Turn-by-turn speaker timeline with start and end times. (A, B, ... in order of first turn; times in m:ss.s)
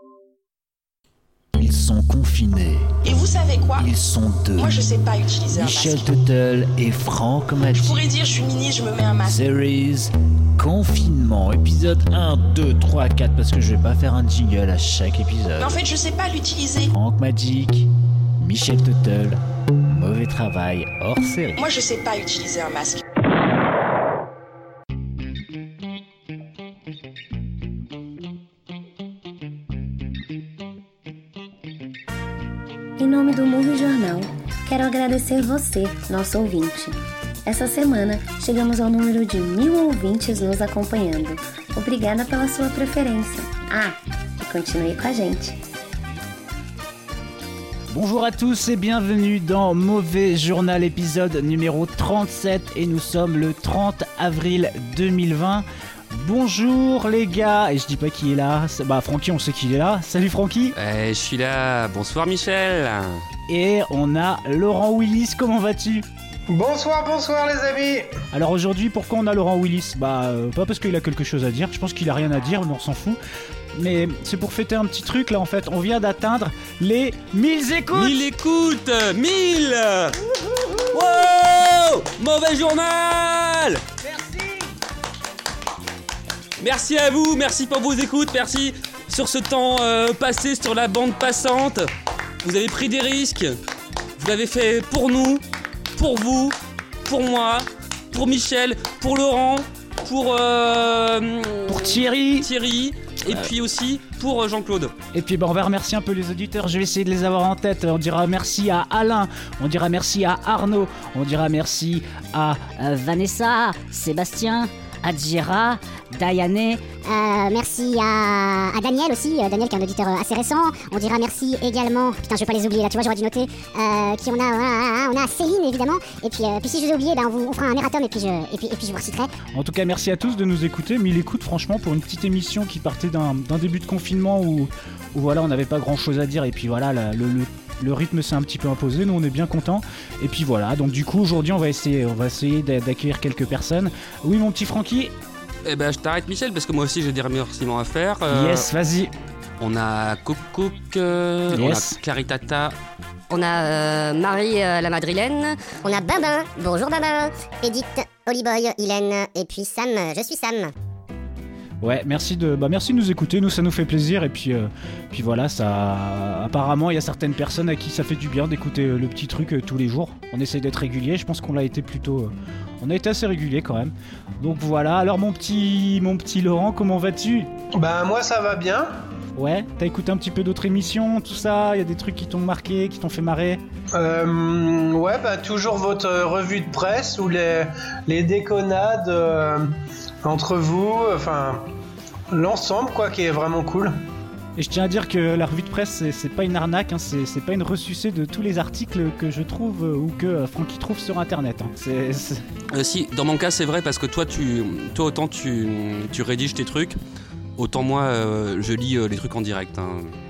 0:01.6-0:02.9 A
0:03.0-0:03.9 B
0:03.8-0:04.7 A
0:04.6-0:06.1 B
0:05.5-0:08.1 A
0:07.7-0:09.4 B
0:09.2-0:15.7 A
0:15.6-0:16.9 B
0:16.9-0:19.4 A
0:19.9-0:21.6 A
0:21.6-0:23.0 B
0:33.0-0:45.6 C
0:47.9-1:00.8 A
1:00.8-1:03.2 D
1:03.5-1:06.1 A
1:06.5-1:08.1 E
1:08.3-1:13.2 A
1:13.8-1:18.2 A
1:17.9-1:20.2 D
1:20.9-1:23.8 D
1:24.0-1:24.7 A
1:26.6-1:31.9 D
1:32.4-1:33.6 D
1:34.2-1:35.4 D
1:36.0-1:44.9 D
1:41.7-1:42.5 A
1:45.1-1:53.4 A
1:52.8-1:54.7 F
1:54.1-1:55.6 A
1:55.2-1:56.8 F
1:57.0-2:09.3 G
2:09.6-2:25.1 A
2:25.6-2:28.7 D
2:28.3-2:29.1 A
2:29.6-2:32.8 D
2:31.5-2:32.0 A
2:33.3-2:35.8 H
2:35.8-2:40.7 G
2:41.8-2:57.5 A
2:57.8-2:59.0 E
2:59.4-3:03.6 A
3:03.9-3:09.7 E
3:10.2-3:11.6 E
3:12.3-3:14.0 E
3:14.6-3:22.4 A
3:22.7-3:27.0 D
3:27.6-3:30.2 D